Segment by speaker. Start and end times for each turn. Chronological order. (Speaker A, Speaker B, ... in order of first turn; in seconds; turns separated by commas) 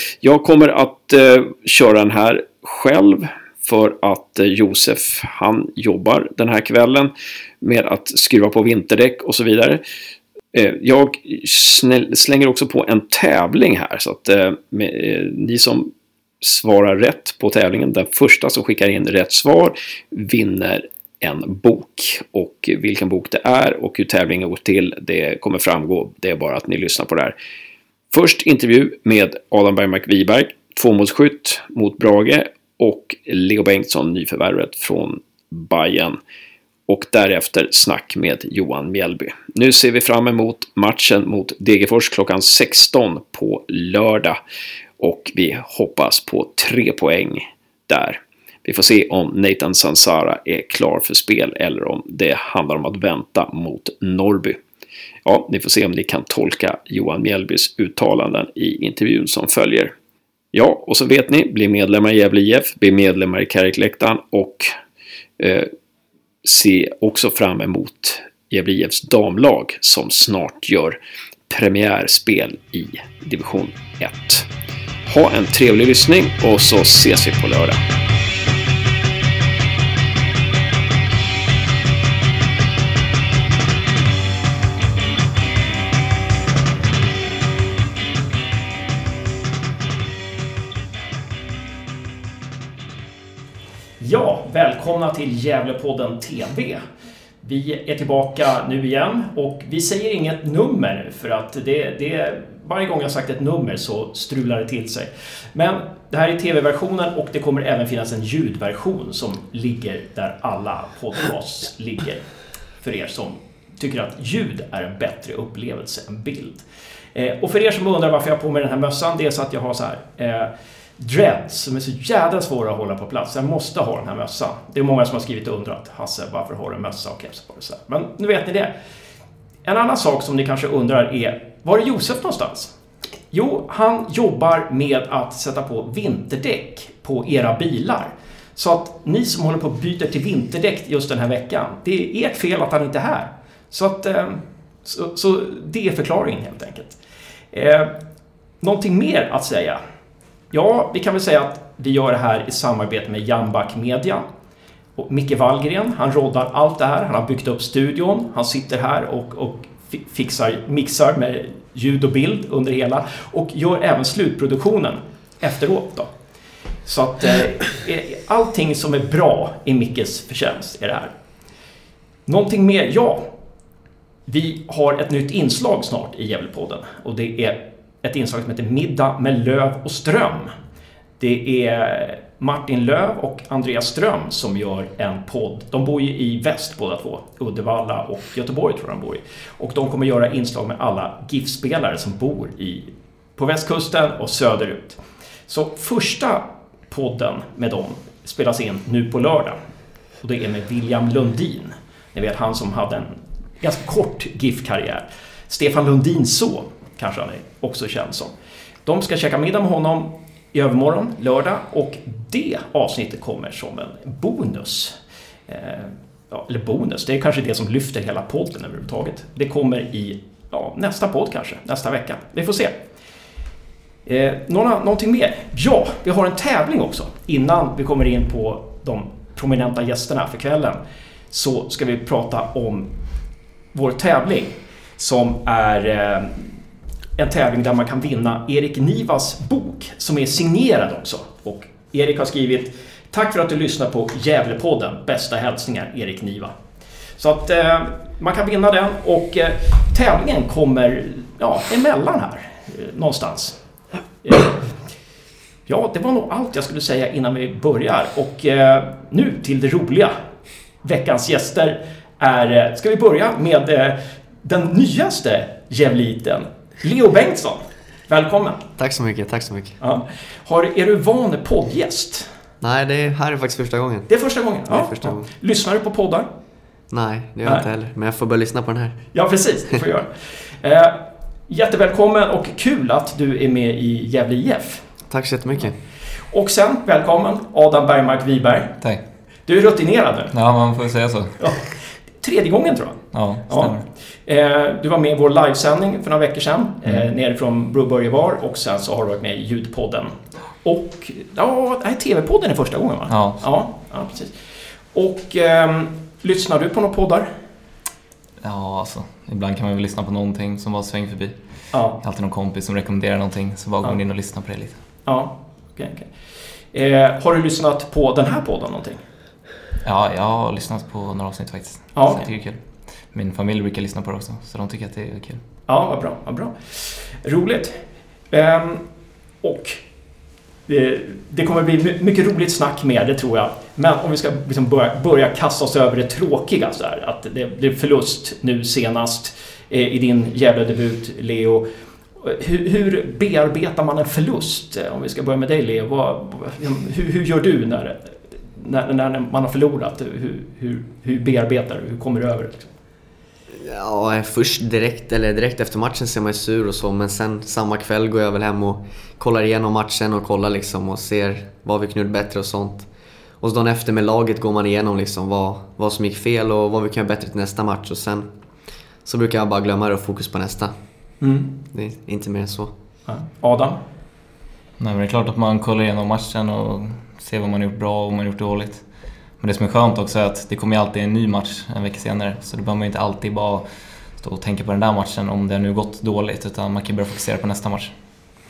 Speaker A: 0.2-7.0, Speaker B: 0.2-7.1, Speaker A: 7.6-9.6, Speaker B: 7.6-9.8, Speaker A: 10.5-15.8, Speaker B: 10.8-15.8, Speaker A: 16.4-27.3, Speaker B: 16.4-20.7, Speaker B: 21.2-27.3, Speaker B: 28.1-35.1, Speaker A: 28.1-36.1, Speaker B: 35.7-36.1, Speaker A: 36.9-44.3, Speaker B: 36.9-44.3, Speaker A: 45.0-47.4, Speaker B: 45.0-47.4, Speaker A: 48.6-50.8, Speaker B: 48.7-54.5, Speaker A: 51.5-54.5, Speaker B: 55.2-59.9, Speaker A: 55.3-58.8, Speaker A: 60.5-64.6, Speaker B: 60.5-64.6, Speaker A: 66.4-70.9, Speaker B: 66.5-70.9, Speaker A: 71.5-74.0, Speaker B: 71.5-74.4, Speaker B: 75.1-77.8, Speaker A: 75.1-77.5, Speaker B: 94.0-96.8, Speaker B: 97.4-112.2, Speaker B: 112.8-128.7, Speaker B: 129.6-132.7, Speaker B: 133.3-147.0, Speaker B: 147.5-148.0, Speaker B: 148.6-149.8, Speaker B: 150.5-154.2, Speaker B: 154.9-166.1, Speaker B: 166.8-171.1, Speaker B: 172.2-173.3, Speaker B: 174.2-180.5, Speaker B: 181.2-199.6, Speaker B: 200.2-208.3, Speaker B: 208.8-214.9, Speaker B: 215.5-222.8, Speaker B: 224.0-232.9, Speaker B: 233.7-236.6, Speaker B: 237.2-246.6, Speaker B: 247.2-253.6, Speaker B: 254.2-254.8, Speaker B: 255.7-260.1, Speaker B: 260.8-268.7, Speaker C: 268.8-269.8, Speaker B: 269.8-272.3, Speaker C: 272.6-274.1, Speaker B: 274.1-276.3, Speaker C: 274.7-275.2, Speaker C: 276.9-279.0, Speaker B: 279.1-284.8, Speaker C: 285.1-285.8, Speaker B: 286.1-288.8, Speaker B: 289.4-290.3, Speaker D: 290.3-291.4, Speaker B: 291.4-307.3, Speaker D: 293.1-293.9, Speaker D: 303.1-303.4, Speaker D: 308.4-314.8, Speaker B: 311.7-312.0, Speaker B: 315.1-316.1, Speaker B: 316.7-319.0, Speaker D: 319.8-322.6, Speaker B: 321.9-322.2, Speaker D: 323.1-325.4, Speaker B: 325.7-328.8, Speaker B: 329.4-329.8, Speaker B: 330.7-341.6, Speaker B: 342.2-352.7, Speaker C: 353.5-362.9, Speaker C: 363.4-368.3, Speaker C: 369.0-370.7, Speaker B: 371.2-371.5, Speaker C: 371.7-372.7, Speaker B: 373.1-373.8, Speaker D: 374.8-378.9, Speaker D: 379.4-387.9